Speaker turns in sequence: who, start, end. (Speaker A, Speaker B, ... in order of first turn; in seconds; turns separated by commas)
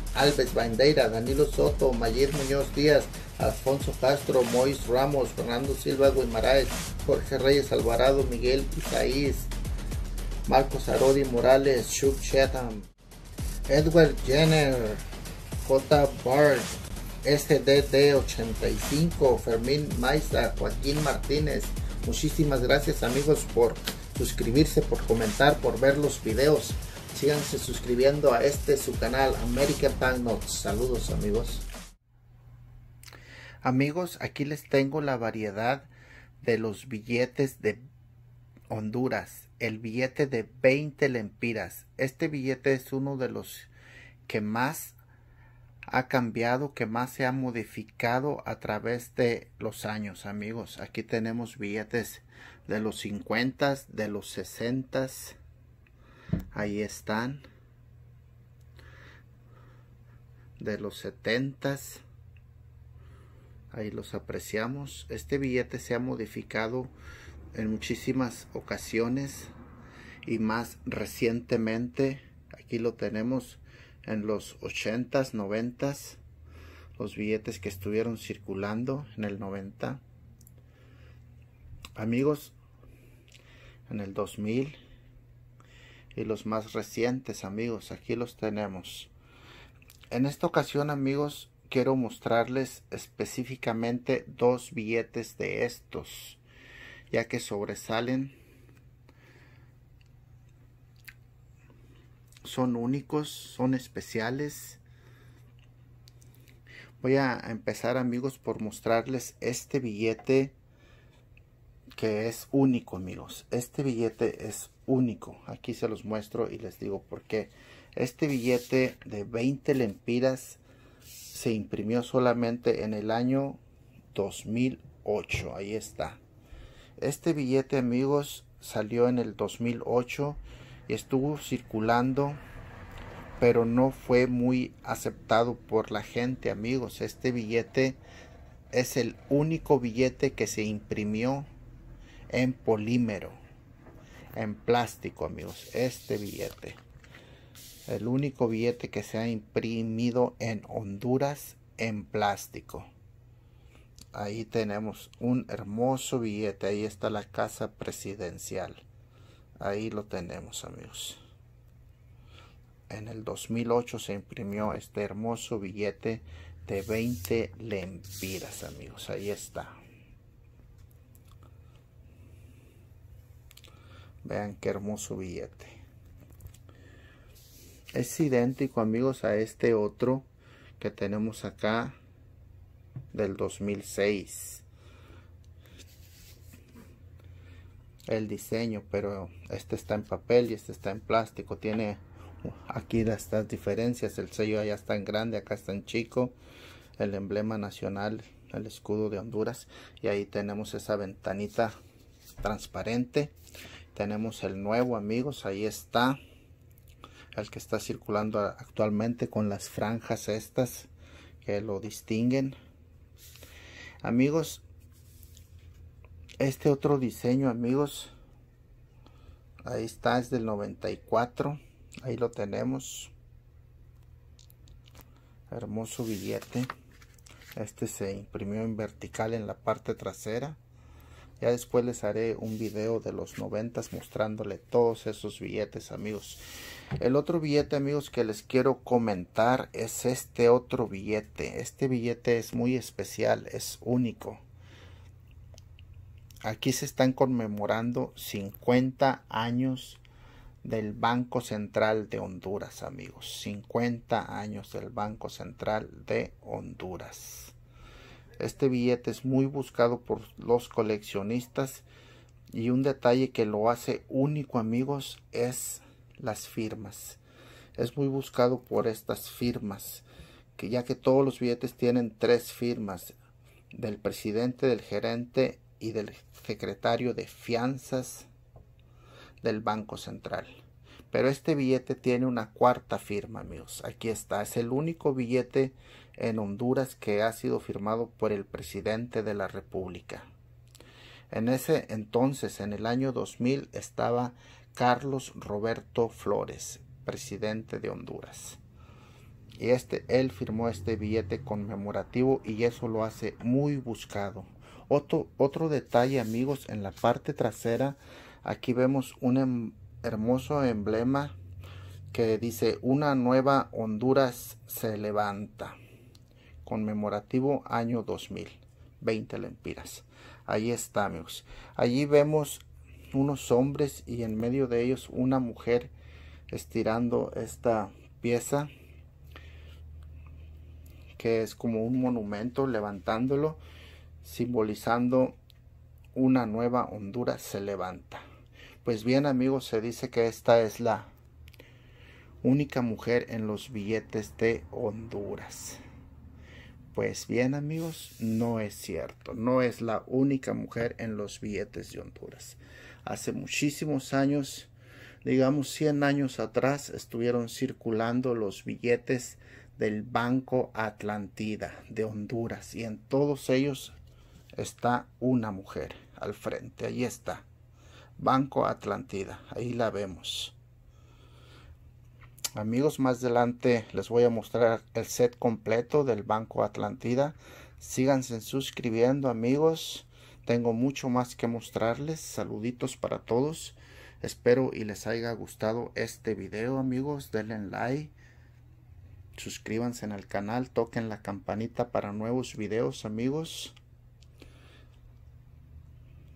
Speaker A: 0.1-9.5, Speaker A: 10.5-12.9, Speaker A: 13.7-15.1, Speaker A: 15.6-31.6, Speaker A: 33.6-35.9, Speaker A: 36.4-37.8, Speaker A: 38.7-43.7, Speaker A: 44.3-45.0, Speaker A: 45.9-55.4, Speaker A: 56.5-57.4, Speaker A: 60.6-62.0, Speaker A: 63.7-66.9, Speaker A: 67.5-69.5, Speaker A: 70.2-76.2, Speaker A: 77.0-80.0, Speaker A: 82.0-82.6, Speaker A: 83.9-84.8, Speaker A: 86.1-89.1, Speaker A: 90.1-96.4, Speaker A: 97.1-98.4, Speaker A: 102.4-104.8, Speaker A: 107.0-110.5, Speaker A: 112.0-120.6, Speaker A: 121.3-123.6, Speaker A: 124.1-126.2, Speaker A: 127.0-132.4, Speaker A: 133.4-138.0, Speaker A: 138.7-141.5, Speaker A: 142.3-143.4, Speaker A: 144.3-146.8, Speaker A: 147.9-152.9, Speaker A: 154.1-158.8, Speaker A: 159.6-161.2, Speaker A: 162.9-169.8, Speaker A: 174.2-175.8, Speaker A: 177.9-180.3, Speaker A: 180.8-182.0, Speaker A: 183.1-184.7, Speaker A: 188.1-196.4, Speaker A: 197.0-201.8, Speaker A: 202.4-203.3, Speaker A: 203.9-206.2, Speaker A: 207.3-210.9, Speaker A: 211.4-212.6, Speaker A: 214.0-214.7, Speaker A: 216.4-218.1, Speaker A: 219.7-223.1, Speaker A: 225.5-226.7, Speaker A: 227.6-230.6, Speaker A: 231.4-236.4, Speaker A: 237.0-244.4, Speaker A: 246.4-250.0, Speaker A: 250.6-257.6, Speaker A: 258.4-261.9, Speaker A: 262.5-267.2, Speaker A: 267.8-270.0, Speaker A: 270.6-273.1, Speaker A: 273.7-278.3, Speaker A: 279.4-290.3, Speaker A: 291.3-298.6, Speaker A: 299.6-311.4, Speaker A: 312.1-315.8, Speaker A: 316.6-325.9, Speaker A: 326.5-328.7, Speaker A: 331.2-333.6, Speaker A: 334.2-335.4, Speaker A: 336.1-338.2, Speaker A: 338.8-341.1, Speaker A: 342.4-345.8, Speaker A: 346.9-354.7, Speaker A: 355.2-364.0, Speaker A: 364.6-367.5, Speaker A: 368.2-370.6, Speaker A: 372.6-388.1, Speaker A: 389.4-393.8